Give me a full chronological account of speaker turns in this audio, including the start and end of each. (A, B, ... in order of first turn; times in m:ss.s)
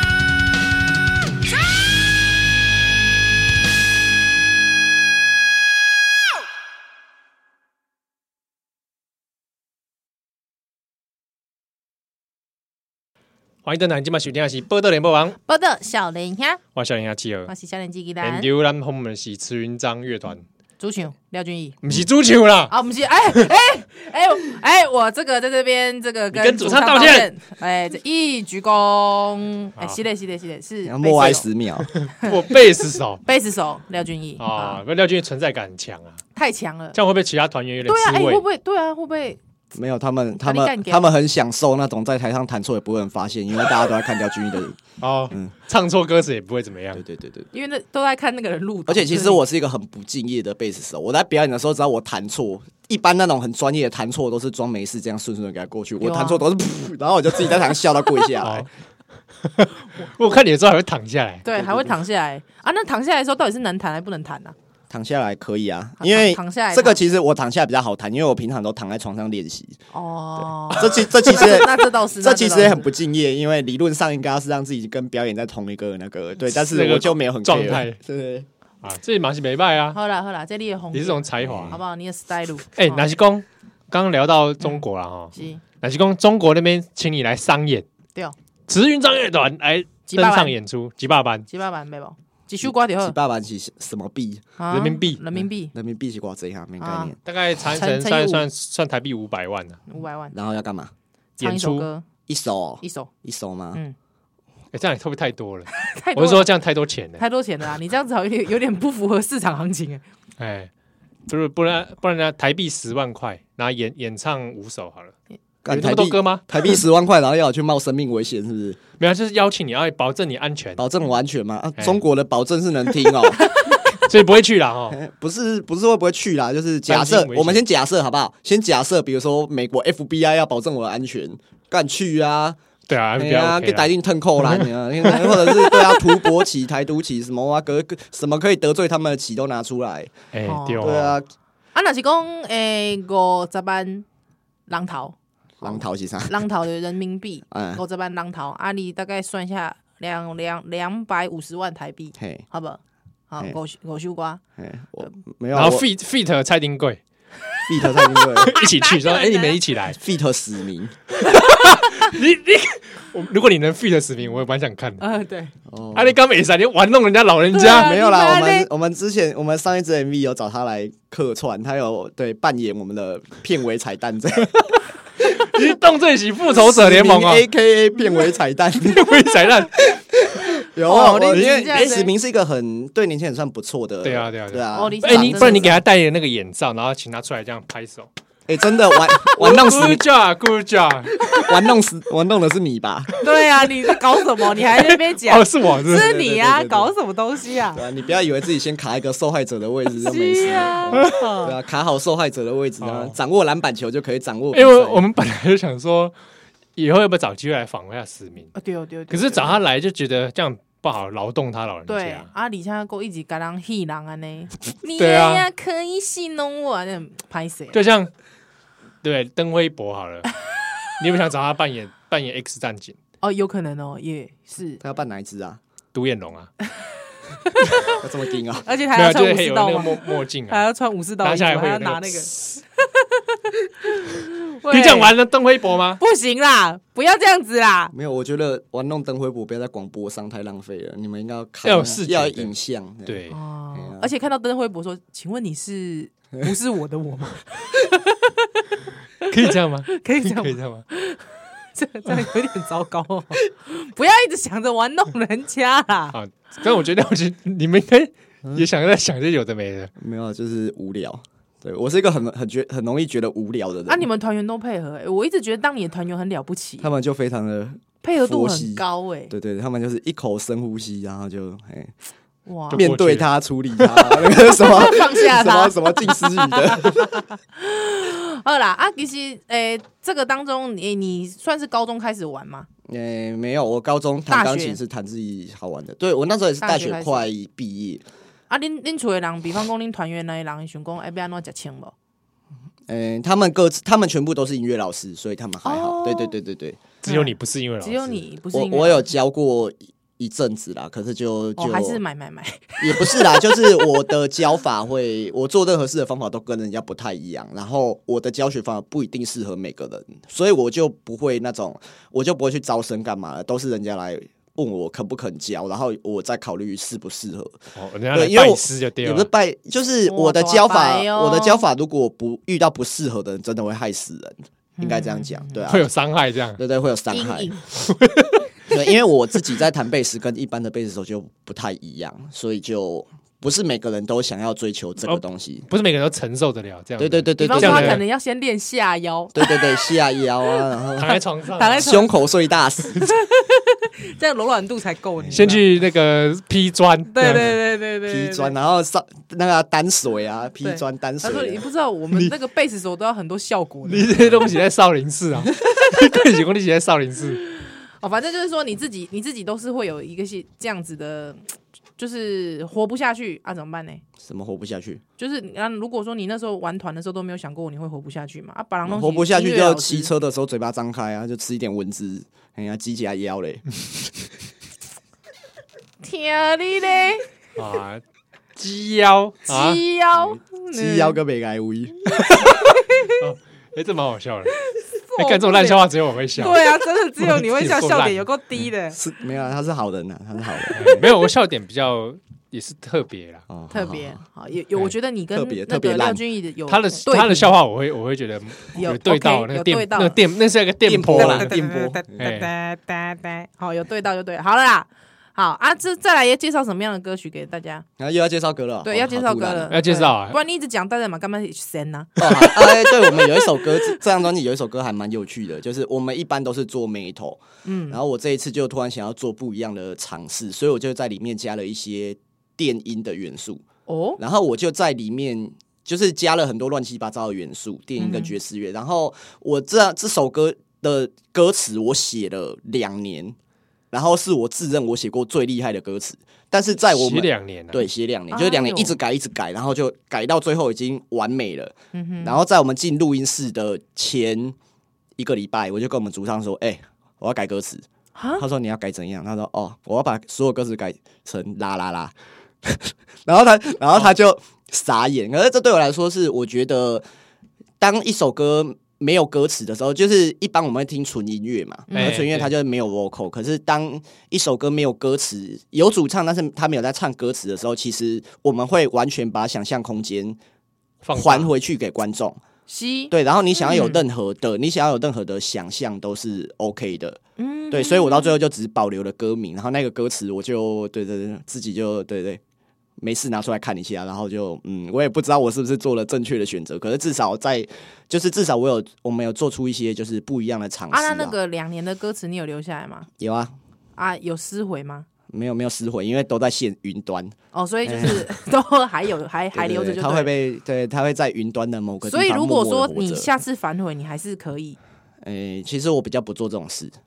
0:13.6-0:15.4 A
0:15.4-0:16.6 B
0:16.7-0:17.5 A
0:17.5-0:18.5 B
0:18.2-0:20.4 A
0:20.8-0:21.8 B
0:21.8-0:22.7 A
0:22.7-0:31.5 B
0:26.3-0:27.3 A
0:30.8-0:31.9 C
0:32.0-0:33.2 A
0:33.2-0:34.8 B
0:34.4-0:36.2 A
0:36.4-0:37.0 B
0:36.9-0:38.4 A
0:37.8-0:39.4 B
0:39.7-0:44.8 C
0:40.4-0:41.1 B
0:45.0-0:47.0 A
0:46.9-0:47.5 C
0:47.5-0:49.4 B
0:48.9-0:58.6 C
0:56.0-0:56.4 B
0:58.4-0:58.7 A
0:59.4-1:01.4 A
1:01.4-1:04.6 B
1:01.5-1:02.0 C
1:04.9-1:09.8 C
1:06.0-1:07.0 B
1:09.9-1:12.9 B
1:10.7-1:18.5 C
1:16.5-1:18.0 A
1:18.8-1:20.0 A
1:19.9-1:23.1 B
1:20.9-1:21.8 A
1:21.4-1:21.7 C
1:22.8-1:27.8 A
1:25.3-1:25.6 B
1:28.7-1:31.4 A
1:30.1-1:30.6 B
1:31.5-1:33.2 B
1:32.6-1:34.4 C
1:34.6-1:35.7 B
1:34.7-1:35.2 A
1:35.4-1:37.2 C
1:36.8-1:37.2 B
1:37.2-1:39.8 A
1:37.7-1:38.4 B
1:39.9-1:40.4 B
1:40.3-1:40.9 C
1:41.4-1:41.9 A
1:41.4-1:42.0 B
1:42.3-1:43.8 C
1:42.8-1:43.1 B
1:44.7-1:47.2 A
1:45.8-1:46.5 B
1:47.2-1:50.0 B
1:50.4-1:50.7 A
1:51.3-1:55.1 A
1:55.6-1:58.8 C
1:55.7-1:56.4 A
1:59.0-2:00.8 A
2:00.8-2:03.5 C
2:03.7-2:05.0 A
2:04.9-2:12.6 C
2:06.9-2:07.6 A
2:12.9-2:15.4 A
2:13.2-2:20.1 C
2:20.3-2:21.2 A
2:20.4-2:21.0 B
2:20.8-2:21.3 C
2:21.7-2:24.1 B
2:24.7-2:34.4 B
2:25.6-2:26.4 C
2:27.5-2:27.8 C
2:32.2-2:32.4 C
2:34.6-2:35.9 C
2:35.5-2:37.0 A
2:37.7-2:38.6 C
2:37.8-2:39.6 B
2:38.5-2:40.0 A
2:39.9-2:40.9 C
2:41.3-2:45.0 A
2:41.3-2:41.9 B
2:45.0-2:45.5 B
2:45.7-2:46.2 C
2:45.9-2:47.9 A
2:47.5-2:48.7 B
2:47.6-2:54.9 C
2:55.2-2:57.5 A
2:56.5-3:05.8 C
2:58.8-2:59.9 A
3:00.8-3:02.1 B
3:04.0-3:08.1 A
3:04.7-3:05.8 B
3:08.5-3:10.0 C
3:09.2-3:11.4 A
3:11.2-3:13.1 C
3:13.2-3:17.8 B
3:14.6-3:16.1 A
3:15.9-3:16.9 C
3:17.7-3:25.0 C
3:20.0-3:21.6 B
3:22.8-3:23.1 A
3:24.5-3:26.1 A
3:26.8-3:28.5 A
3:28.6-3:29.6 B
3:29.1-3:32.3 A
3:31.9-3:37.8 B
3:35.0-3:35.5 A
3:37.7-3:38.1 A
3:39.0-3:40.3 A
3:41.0-3:43.0 A
3:43.2-3:44.8 B
3:44.8-3:45.6 C
3:45.9-3:46.5 A
3:47.4-3:48.0 B
3:47.9-3:48.7 C
3:48.6-3:55.1 B
3:48.9-3:50.6 A
3:51.2-3:52.6 A
3:54.7-3:56.0 A
3:56.0-3:57.9 B
3:57.9-4:03.2 C
4:01.6-4:02.5 A
4:03.1-4:03.4 A
4:03.3-4:08.6 B
4:03.7-4:04.1 C
4:09.2-4:16.2 B
4:09.3-4:10.8 A
4:16.1-4:19.9 A
4:20.0-4:24.1 C
4:23.9-4:26.9 B
4:26.8-4:31.9 C
4:28.0-4:29.3 B
4:32.4-4:32.8 B
4:32.7-4:33.3 A
4:32.7-4:37.2 C
4:34.4-4:42.7 B
4:42.9-4:48.0 C
4:44.3-4:44.8 B
4:46.6-4:47.3 B
4:48.5-4:51.9 B
4:52.9-4:56.9 C
4:55.6-4:56.4 B
4:57.0-4:58.2 A
4:57.0-4:59.1 B
4:58.5-5:02.0 C
5:01.6-5:04.1 B
5:02.8-5:17.6 C
5:17.8-5:19.3 A
5:18.1-5:25.9 C
5:20.1-5:21.6 B
5:24.8-5:25.7 B
5:25.7-5:26.6 A
5:26.6-5:27.5 C
5:27.1-5:27.6 B
5:27.8-5:28.5 A
5:28.7-5:35.7 C
5:35.0-5:38.0 A
5:37.0-5:38.0 C
5:37.4-5:39.9 B
5:39.3-5:41.2 C
5:40.5-5:42.2 B
5:41.0-5:41.9 A
5:41.8-5:43.0 C
5:42.9-5:45.7 B
5:45.2-5:45.5 C
5:45.3-5:47.6 A
5:47.1-5:48.5 B
5:48.1-5:51.6 C
5:50.6-5:54.2 B
5:53.9-5:57.4 A
5:57.6-6:04.0 B
6:04.2-6:05.0 C
6:05.2-6:10.1 B
6:08.8-6:13.6 C
6:16.0-6:17.3 B
6:17.6-6:18.0 A
6:18.6-6:19.8 A
6:19.5-6:21.2 B
6:20.2-6:22.1 C
6:22.1-6:24.6 A
6:22.6-6:23.2 B
6:24.6-6:29.0 B
6:25.2-6:28.2 A
6:28.9-6:31.1 C
6:30.7-6:33.4 A
6:33.5-6:34.2 C
6:33.7-6:37.5 B
6:35.3-6:36.2 C
6:36.7-6:41.6 A
6:38.7-6:40.2 B
6:40.8-6:42.2 C
6:41.1-6:47.8 B
6:42.2-6:42.5 A
6:48.0-6:49.7 C
6:48.8-6:54.0 B
6:49.7-6:50.4 A
6:52.2-7:03.6 C
6:57.6-6:58.0 B
7:03.9-7:04.2 B
7:04.2-7:13.4 C
7:08.0-7:08.4 B
7:13.9-7:24.6 C
7:16.9-7:17.8 A
7:18.3-7:19.0 B
7:21.9-7:22.4 B
7:25.2-7:27.8 C
7:28.2-7:28.4 B
7:28.4-7:37.0 C
7:37.8-7:50.4 C
7:41.9-7:42.2 B
7:41.9-7:42.5 A
7:51.0-7:51.5 A
7:51.1-7:52.4 C
7:52.7-7:54.0 B
7:53.1-7:57.2 C
7:57.4-7:58.4 B
7:57.7-8:02.4 C
8:03.0-8:11.4 C
8:10.9-8:13.1 B
8:13.2-8:13.6 C
8:14.0-8:15.1 B
8:15.3-8:18.3 C
8:17.5-8:20.3 B
8:19.5-8:23.3 C
8:22.0-8:24.8 B
8:25.2-8:26.9 C